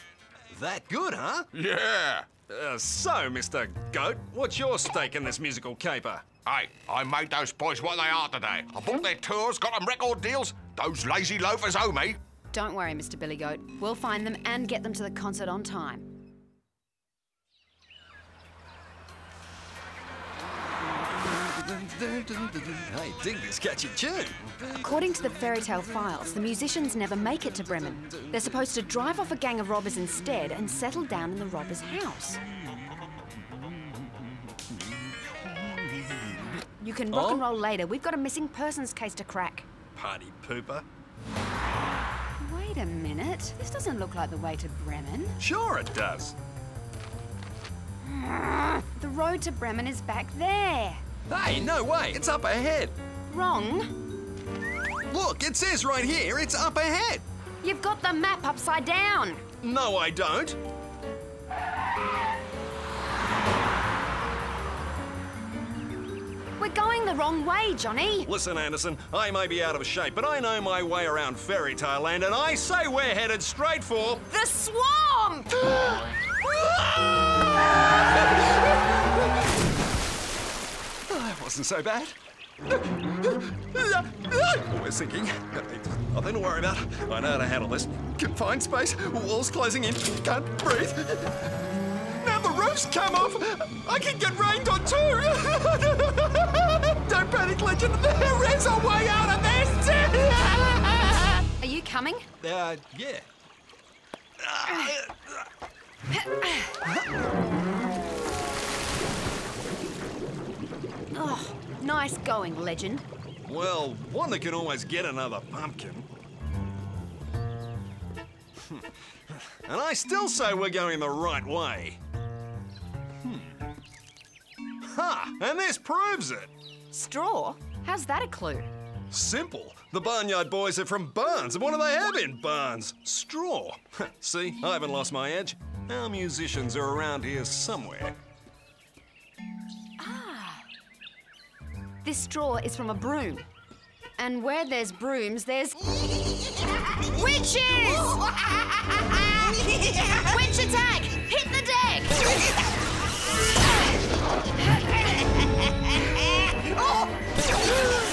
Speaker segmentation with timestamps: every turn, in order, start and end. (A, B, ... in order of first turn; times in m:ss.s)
0:00.5-0:01.5 A
0:01.6-0:02.3 B
0:02.4-0:06.2 A
0:06.5-0:12.2 B
0:12.5-0:16.0 C
0:21.2-0:24.5 A
0:24.8-0:32.4 C
0:35.6-0:36.1 A
0:36.8-0:39.7 C
0:37.1-0:37.4 A
0:40.0-0:40.8 A
0:42.4-0:45.4 C
0:45.4-0:46.3 A
0:48.1-0:51.0 C
0:51.3-0:53.0 A
0:53.3-0:53.9 C
0:55.1-0:57.2 A
0:57.6-0:59.5 C
0:59.6-1:00.6 A
1:06.6-1:08.3 C
1:08.3-1:14.2 A
1:14.3-1:15.5 C
1:15.9-1:17.4 A
1:18.2-1:19.1 A
1:21.1-1:22.2 A
1:22.8-1:31.4 A
1:32.1-1:41.4 A
1:41.6-1:42.3 C
1:42.4-1:43.3 A
1:44.4-1:45.4 A
1:46.1-1:46.8 C
1:51.1-1:53.0 C
1:53.5-1:56.1 A
1:58.6-2:02.0 A
2:03.2-2:03.6 A
2:04.8-2:06.5 A
2:06.9-2:08.7 C
2:09.1-2:18.2 A
2:20.0-2:20.6 C
2:22.0-2:23.5 C
2:24.2-2:26.0 C
2:27.0-2:28.3 C
2:29.3-2:32.2 C